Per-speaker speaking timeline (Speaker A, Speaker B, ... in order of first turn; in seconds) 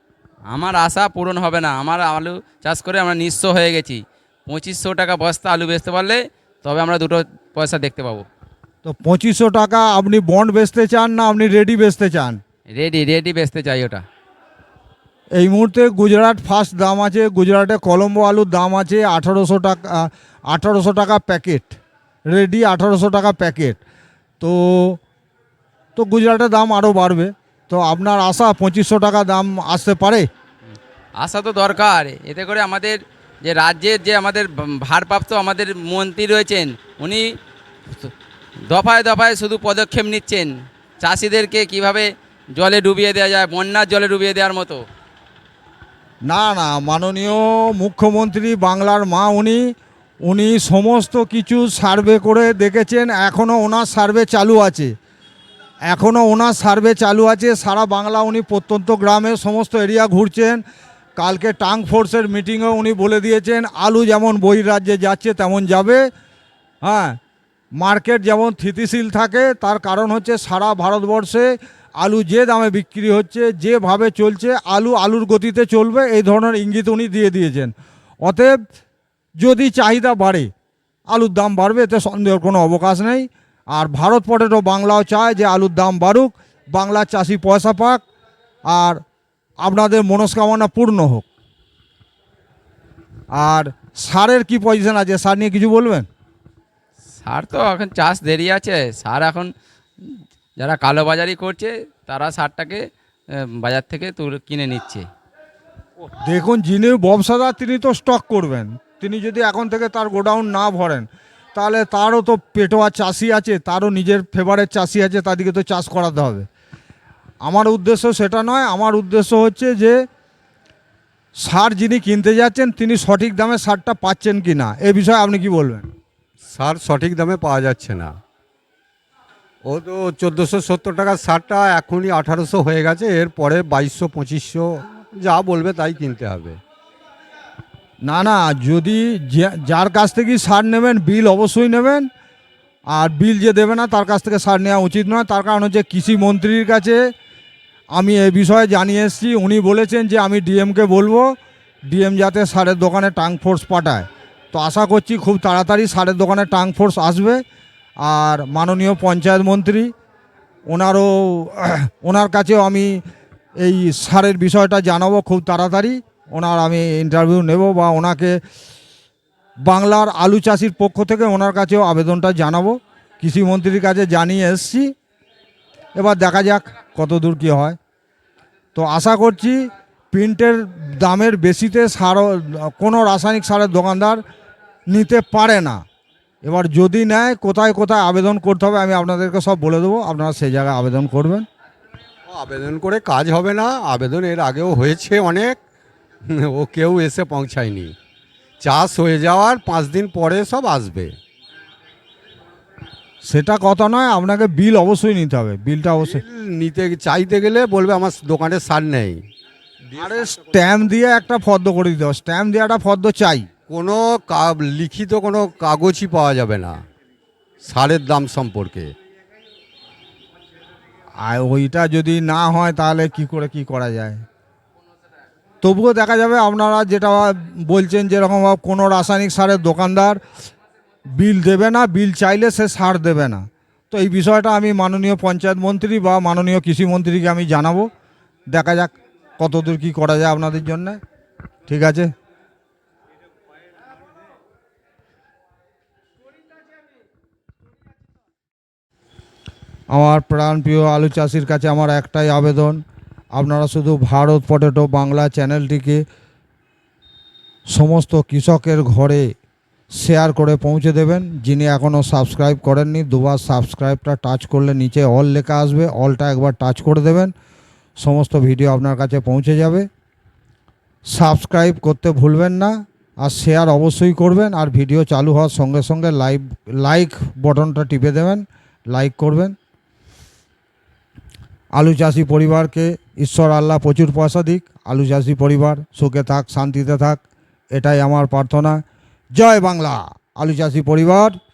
Speaker A: 0.5-8.2, 12.7-14.0, 31.2-37.3, 38.7-44.8, 97.2-105.1
Speaker B: 8.8-12.4, 15.3-21.8, 22.3-23.8, 24.4-25.0, 25.9-30.3, 46.2-49.7, 50.2-54.9, 55.9-60.6, 61.2-66.1, 66.8-67.2, 67.8-77.7, 78.2-78.5, 79.4-80.5, 81.1-88.0, 88.7-89.0, 89.6-91.3, 93.3-96.1, 106.0-116.5, 117.4-120.0, 121.4-125.9, 138.0-142.1, 142.9-147.0, 147.9-151.4, 151.9-157.4, 158.0-159.9, 160.7-163.0, 163.6-168.4, 169.7-174.9, 175.9-177.8, 178.8-184.2, 184.9-185.8, 186.4-191.4, 203.2-206.2, 209.9-213.5, 221.2-224.2, 225.6-230.2, 231.1-237.9, 238.5-241.0, 241.7-242.1, 249.9-252.8, 253.3-256.0, 257.7-259.3, 259.9-267.3, 268.0-269.9, 271.1-279.5, 281.7-287.2, 287.7-288.8, 289.4-291.4
Speaker C: 126.5-128.1, 129.7-136.6, 192.3-195.6, 196.3-197.9, 198.6-201.1, 206.0-209.2, 213.7-216.8, 217.6-218.9